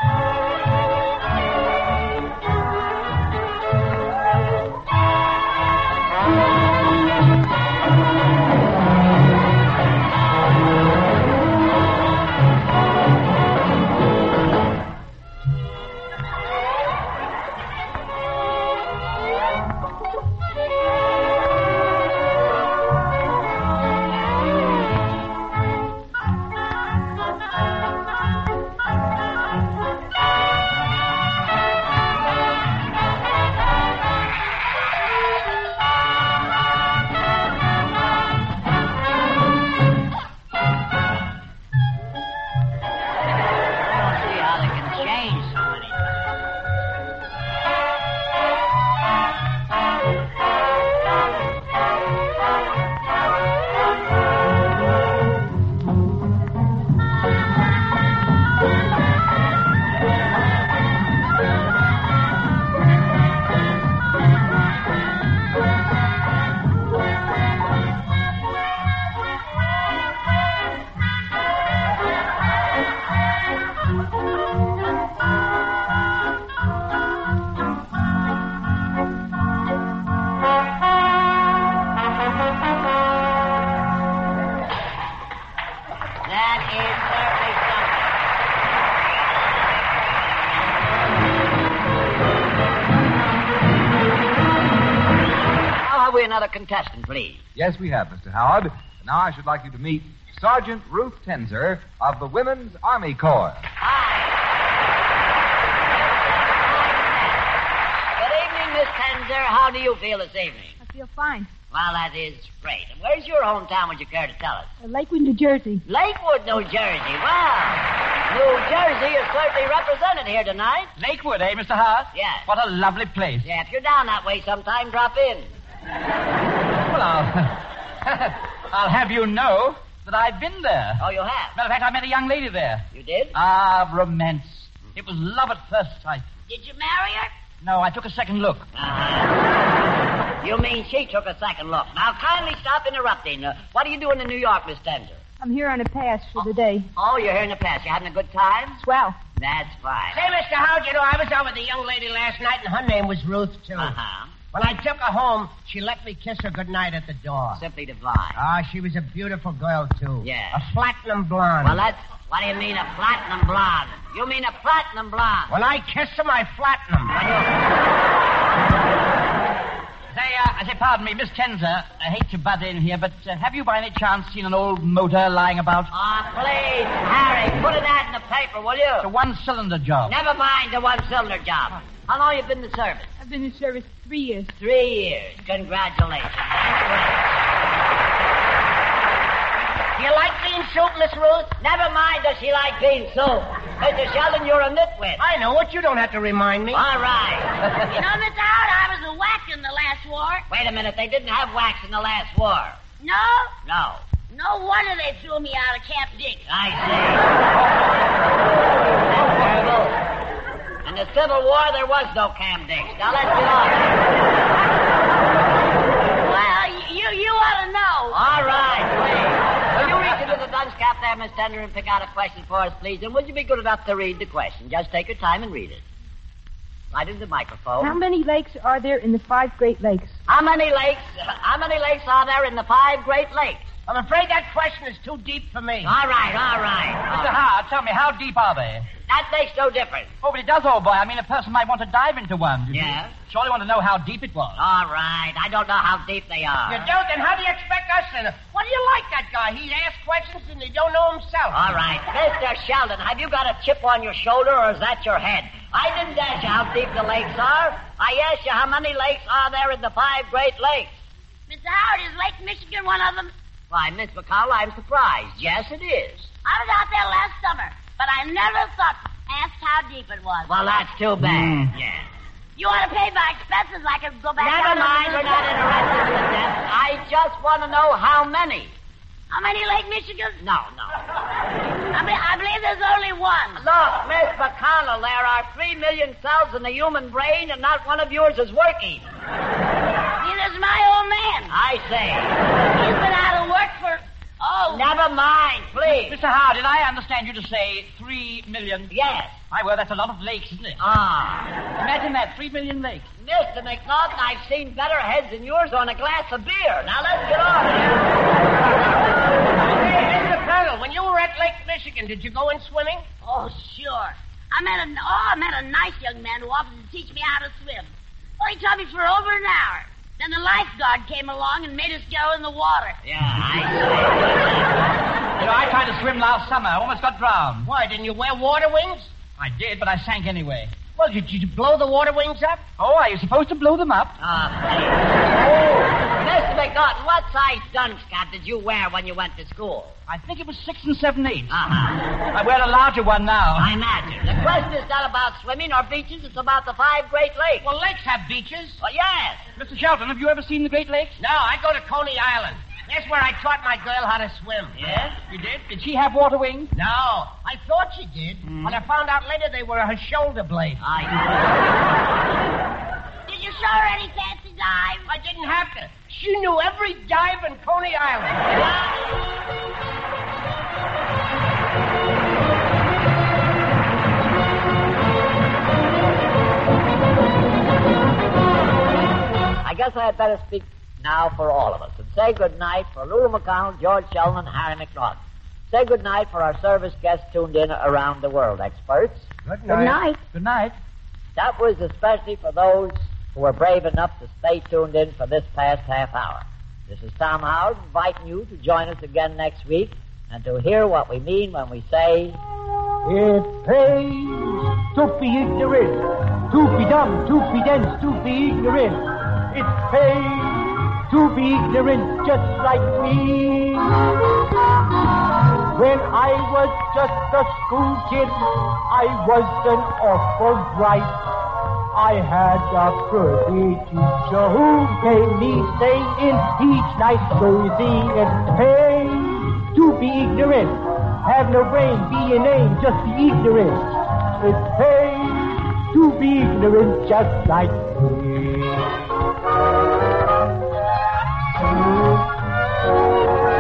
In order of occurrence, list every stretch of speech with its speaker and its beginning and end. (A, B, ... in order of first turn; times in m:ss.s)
0:43.8-0:46.0 A
1:26.2-1:28.1 A
1:35.8-1:37.4 A
1:37.6-1:43.7 B
1:43.8-1:44.5 A
1:45.9-1:47.5 A
1:48.2-1:50.8 A
1:50.8-1:51.5 C
1:51.7-1:54.7 A
1:54.8-1:55.8 C
1:55.8-2:00.9 A
2:01.0-2:03.5 D
2:02.1-2:02.5 A
2:03.4-2:05.5 A
2:06.8-2:11.0 D
2:11.0-2:11.6 A
2:11.6-2:16.3 D
2:12.9-2:13.3 A
2:16.5-2:17.3 E
2:17.6-2:18.7 D
2:18.7-2:19.6 A
2:20.4-2:25.2 A
2:25.4-2:26.9 C
2:26.4-2:28.8 A
2:28.8-2:29.2 C
2:29.4-2:30.2 A
2:30.1-2:34.0 F
2:33.8-2:34.3 A
2:34.5-2:37.6 F
2:37.6-2:38.4 A
2:38.4-2:41.8 F
2:40.2-2:40.6 A
2:41.6-2:45.5 A
2:45.5-2:47.1 F
2:47.1-2:47.5 A
2:50.1-2:55.9 D
2:55.9-2:59.1 A
2:59.0-3:00.1 D
3:00.1-3:03.1 A
3:03.2-3:04.5 C
3:04.5-3:07.4 A
3:10.0-3:11.6 F
3:11.6-3:15.2 A
3:15.2-3:16.8 F
3:16.7-3:17.8 A
3:17.9-3:20.4 E
3:20.5-3:22.8 A
3:23.0-3:23.5 E
3:23.6-3:24.1 A
3:24.3-3:26.4 E
3:26.5-3:27.6 A
3:29.1-3:30.0 A
3:30.8-3:34.1 A
3:36.2-3:38.2 E
3:38.1-3:45.8 A
3:46.9-3:48.0 A
3:47.8-3:50.2 C
3:50.3-3:53.7 A
3:53.9-3:55.9 F
3:55.8-3:57.4 A
3:57.1-3:58.9 D
3:59.1-4:00.2 A
4:00.2-4:04.6 D
4:02.7-4:03.1 A
4:04.6-4:06.9 A
4:06.7-4:11.6 F
4:11.5-4:21.0 A
4:21.5-4:23.3 E
4:23.7-4:26.3 A
4:26.4-4:30.7 E
4:30.5-4:32.1 A
4:31.2-4:31.7 D
4:32.6-4:35.6 E
4:34.4-4:38.7 A
4:39.3-4:40.4 E
4:40.4-4:40.9 A
4:41.9-4:43.6 E
4:43.5-4:49.1 A
4:50.2-4:51.5 E
4:51.5-4:52.4 A
4:52.7-4:54.9 E
4:54.7-4:56.2 A
4:55.8-4:58.9 D
4:58.9-4:59.4 A
4:59.5-5:00.8 D
5:00.8-5:01.5 A
5:01.8-5:03.1 D
5:03.2-5:08.2 A
5:09.6-5:13.0 F
5:13.2-5:23.0 E
5:23.0-5:25.0 A
5:25.4-5:27.7 D
5:27.6-5:29.1 F
5:29.4-5:30.7 D
5:31.0-5:32.6 F
5:32.8-5:34.2 D
5:34.2-5:40.0 A
5:40.1-5:41.6 D
5:41.5-5:42.1 A
5:42.3-5:43.7 D
5:43.6-5:47.7 A
5:47.6-5:48.8 F
5:48.8-5:49.4 A
5:49.6-5:51.2 D
5:51.2-5:55.0 F
5:54.7-5:55.2 A
5:55.3-5:56.7 D
5:56.8-6:00.8 F
5:58.5-5:58.8 A
6:00.8-6:01.7 A
6:03.3-6:05.1 E
6:05.1-6:08.5 F
6:08.5-6:09.1 A
6:19.6-6:29.3 A
6:29.5-6:30.0 F
6:30.3-6:30.8 D
6:31.4-6:42.4 A
6:43.0-6:54.0 G
6:55.7-7:01.2 G
7:01.9-7:19.0 G